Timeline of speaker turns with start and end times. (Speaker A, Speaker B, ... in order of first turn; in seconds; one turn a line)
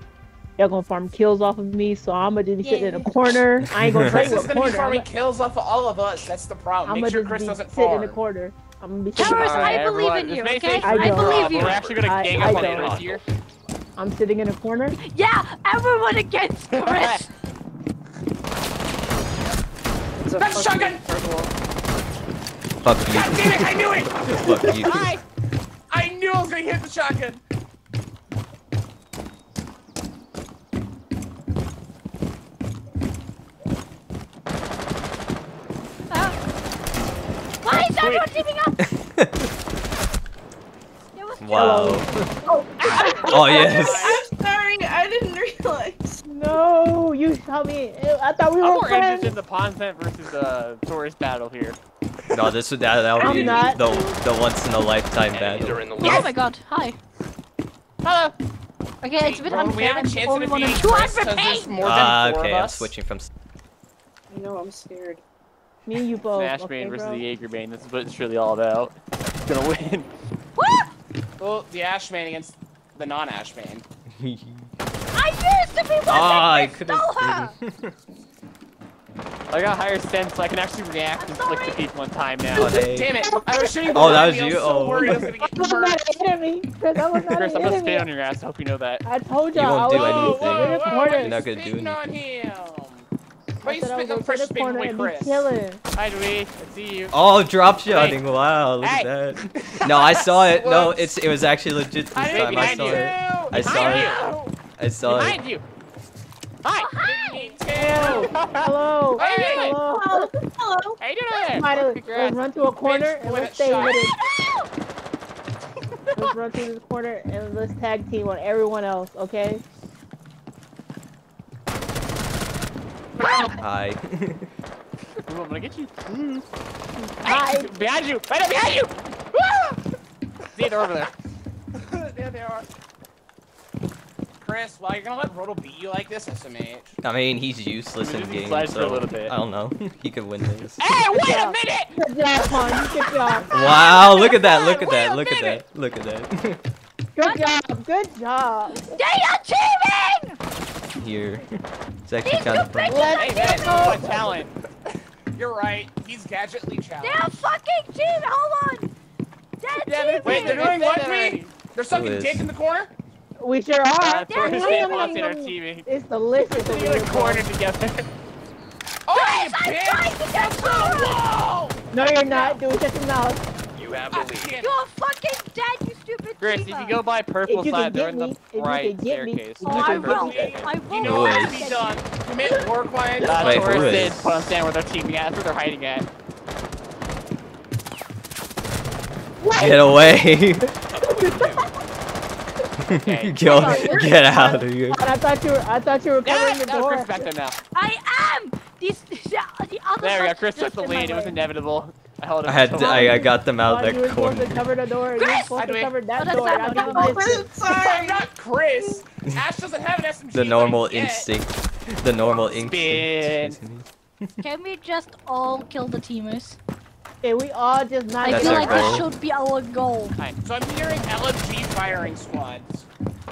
Speaker A: 0.6-5.1
Speaker B: 2.6-3.1
Speaker C: 3.6-4.4
Speaker D: 4.1-8.2
Speaker A: 6.8-9.8
Speaker B: 9.1-11.8
Speaker E: 9.2-13.2
Speaker A: 10.8-12.9
Speaker F: 11.2-13.2
Speaker A: 14.0-15.0
Speaker B: 15.0-17.3
Speaker E: 16.7-17.3
Speaker G: 20.2-21.5
Speaker D: 20.4-21.0
Speaker C: 22.8-25.0
Speaker D: 23.1-24.8
Speaker E: 24.7-25.2
Speaker D: 25.9-27.4
Speaker B: 36.1-36.4
Speaker B: 37.6-38.8
Speaker E: 37.9-38.4
Speaker C: 39.0-39.3
Speaker B: 41.1-42.0
Speaker C: 41.4-42.1
Speaker A: 41.5-42.0
Speaker G: 42.5-46.2
Speaker E: 42.8-44.2
Speaker C: 43.3-44.1
Speaker A: 46.3-49.3
Speaker E: 48.6-51.8
Speaker C: 52.3-55.9
Speaker A: 53.2-54.1
Speaker F: 55.3-56.4
Speaker B: 56.0-57.0
Speaker B: 59.0-61.8
Speaker D: 59.2-62.9
Speaker C: 61.8-63.3
Speaker G: 64.3-65.2
Speaker A: 65.8-67.2
Speaker E: 66.3-70.1
Speaker B: 70.6-70.9
Speaker D: 71.4-73.8
Speaker C: 74.2-74.7
Speaker B: 75.1-77.5
Speaker C: 76.1-77.9
Speaker E: 79.5-82.8
Speaker B: 81.2-81.8
Speaker D: 82.5-86.0
Speaker C: 82.5-83.1
Speaker A: 83.1-84.4
Speaker C: 83.9-85.3
Speaker A: 85.0-88.1
Speaker E: 87.3-89.0
Speaker A: 89.0-91.4
Speaker C: 89.5-92.0
Speaker D: 89.9-93.1
Speaker D: 93.6-95.5
Speaker A: 93.6-95.8
Speaker E: 95.9-97.1
Speaker C: 97.1-104.1
Speaker E: 97.9-98.2
Speaker E: 98.8-100.2
Speaker D: 100.6-101.1
Speaker D: 102.1-104.3
Speaker E: 102.2-104.5
Speaker C: 104.8-105.4
Speaker E: 105.1-105.6
Speaker E: 106.6-107.0
Speaker B: 106.8-107.5
Speaker D: 107.0-108.3
Speaker E: 107.7-108.7
Speaker A: 107.8-110.3
Speaker D: 109.2-109.8
Speaker G: 109.5-111.0
Speaker E: 111.0-112.4
Speaker A: 111.5-114.1
Speaker D: 112.8-114.0
Speaker B: 113.8-114.7
Speaker A: 116.2-119.6
Speaker E: 123.2-123.5
Speaker C: 123.5-124.5
Speaker E: 125.3-126.4
Speaker A: 127.1-127.8
Speaker E: 127.2-129.6
Speaker E: 130.5-131.1
Speaker D: 131.7-132.7
Speaker D: 134.4-136.9
Speaker C: 137.0-141.0
Speaker E: 138.0-139.3
Speaker E: 140.8-141.9
Speaker A: 141.1-143.5
Speaker D: 141.2-141.4
Speaker E: 142.7-143.6
Speaker C: 143.5-146.6
Speaker B: 143.8-145.6
Speaker A: 147.1-148.9
Speaker B: 147.2-147.5
Speaker B: 148.7-150.3
Speaker C: 151.0-153.0
Speaker B: 152.2-154.0
Speaker A: 152.9-154.4
Speaker E: 153.1-154.5
Speaker D: 155.3-157.4
Speaker B: 157.0-158.9
Speaker B: 159.6-160.6
Speaker E: 159.8-161.6
Speaker D: 159.9-162.9
Speaker C: 161.9-162.4
Speaker A: 163.4-167.4
Speaker E: 164.0-165.9
Speaker B: 164.3-165.2
Speaker E: 166.4-168.1
Speaker D: 169.1-171.8
Speaker B: 169.1-171.2
Speaker A: 171.9-173.4
Speaker F: 173.8-174.5
Speaker D: 174.1-174.7
Speaker B: 174.6-177.0
Speaker E: 176.4-180.9
Speaker A: 177.4-180.5
Speaker B: 179.6-182.6
Speaker D: 179.8-183.8
Speaker C: 181.0-181.6
Speaker E: 183.2-186.1
Speaker C: 183.3-184.3
Speaker C: 189.6-190.7
Speaker F: 191.1-191.6
Speaker C: 192.9-195.0
Speaker E: 192.9-193.9
Speaker A: 193.5-197.3
Speaker B: 193.5-194.1
Speaker E: 196.2-197.6
Speaker B: 197.7-201.3
Speaker E: 200.0-203.1
Speaker A: 200.8-201.3
Speaker C: 202.4-204.7
Speaker A: 202.8-207.5
Speaker B: 205.1-207.2
Speaker D: 205.5-206.0
Speaker G: 206.9-208.3
Speaker D: 207.6-211.3
Speaker C: 210.3-214.3
Speaker E: 212.6-213.6
Speaker B: 214.4-216.6
Speaker A: 217.2-219.0
Speaker B: 218.2-220.2
Speaker C: 218.2-219.0
Speaker D: 220.4-222.9